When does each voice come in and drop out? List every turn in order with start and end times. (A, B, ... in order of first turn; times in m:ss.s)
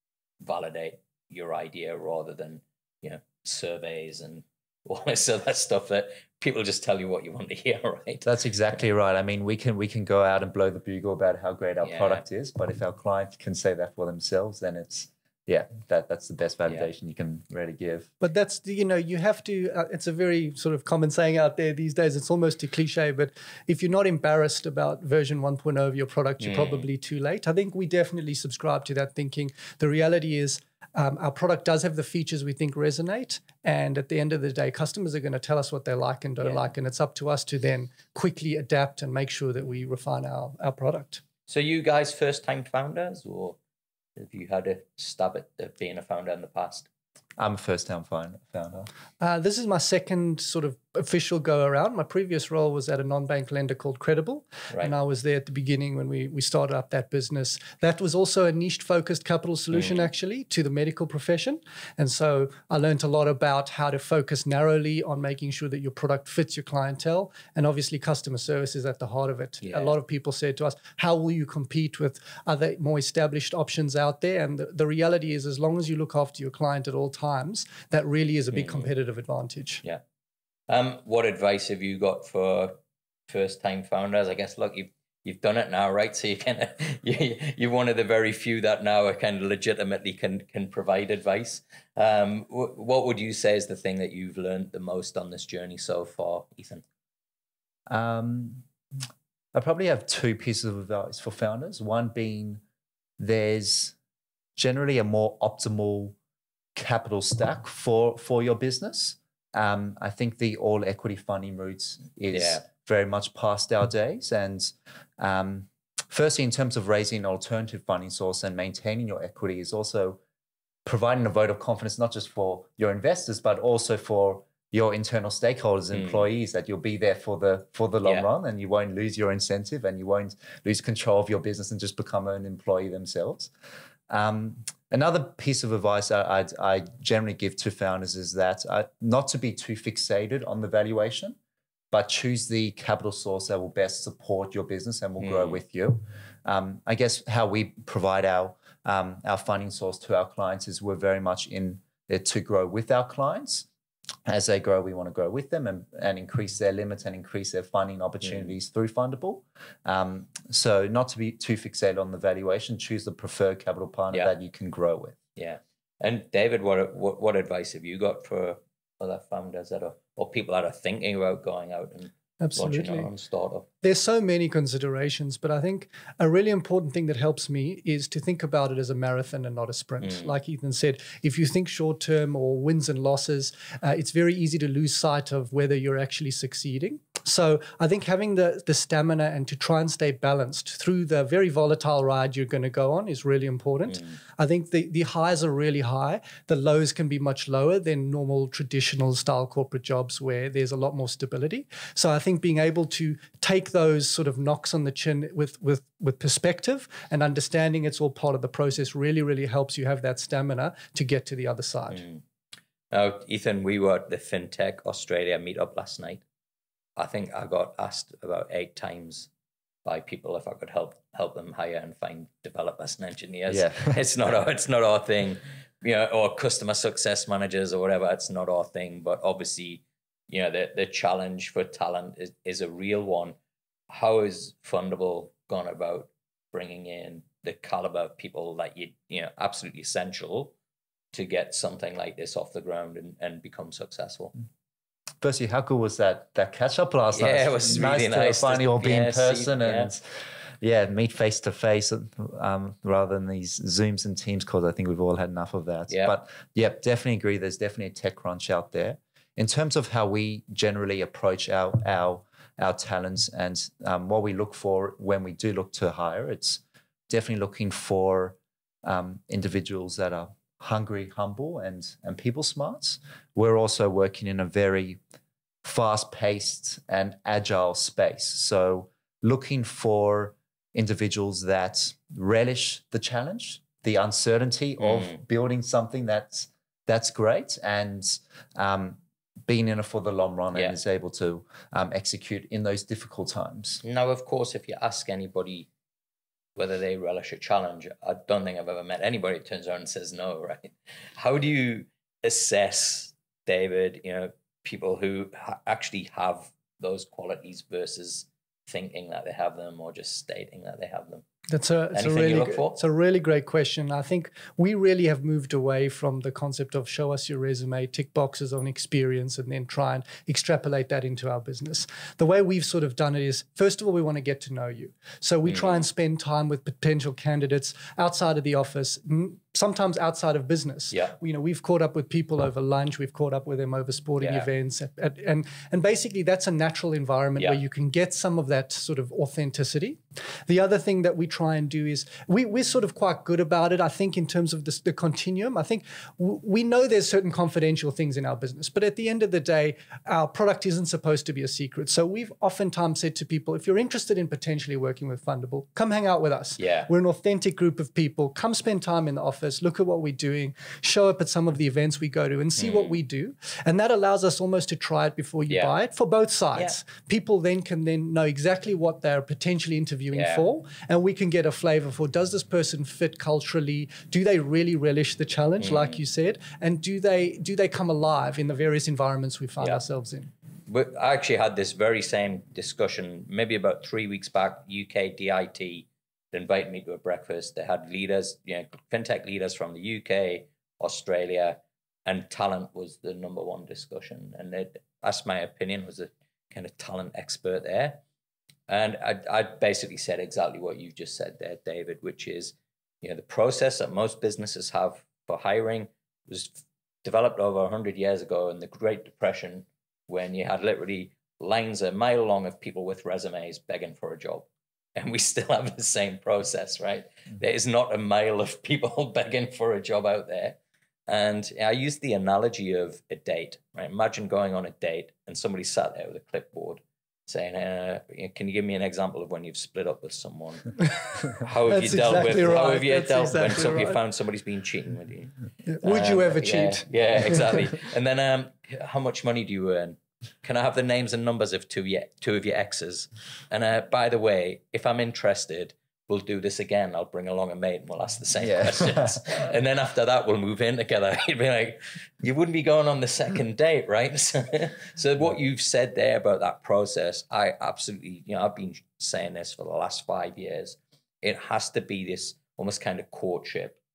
0:00.4-0:08.3 A
0:08.2-0:18.1 B
0:11.8-0:12.2 A
0:18.2-0:41.2 C
0:26.4-0:26.9 A
0:36.4-0:36.7 A
0:41.5-0:43.6 A
0:44.2-0:46.9 A
0:47.4-0:48.9 B
0:49.2-1:19.8 C
0:59.7-1:00.1 A
1:09.6-1:10.0 A
1:18.5-1:18.9 A
1:20.7-1:36.8 A
1:37.9-1:38.6 B
1:39.5-1:42.6 B
1:43.2-1:44.0 B
1:44.6-1:46.2 B
1:46.8-2:00.2 B
1:52.3-1:52.7 A
2:00.8-2:13.5 B
2:05.9-2:06.2 A
2:14.1-2:21.4 B
2:21.9-2:33.7 B
2:25.2-2:25.6 A
2:34.3-2:45.2 B
2:38.2-2:38.5 A
2:45.4-2:53.7 A
2:52.4-2:53.1 C
2:53.8-3:32.0 C
3:00.0-3:00.3 A
3:13.9-3:14.2 A
3:31.9-3:32.2 A
3:32.9-3:36.2 A
3:37.0-3:39.3 A
3:39.8-3:53.4 A
3:43.5-3:44.0 B
3:53.9-4:00.5 A
4:01.1-4:04.3 A
4:05.2-4:10.0 B
4:07.1-4:09.9 A
4:10.6-4:35.0 B
4:35.6-4:53.8 B
4:44.8-4:45.2 A
4:53.8-4:55.7 A
4:56.6-5:11.2 A
5:11.5-6:20.3 C
5:11.9-5:12.8 A
5:25.5-5:25.8 A
5:34.2-5:34.5 A
5:56.6-5:56.9 A
6:02.6-6:03.0 A
6:10.1-6:10.4 A
6:15.6-6:16.0 A
6:20.7-6:38.0 A
6:38.7-7:43.8 A
7:11.7-7:14.0 C
7:15.7-7:17.7 C
7:28.4-7:29.4 B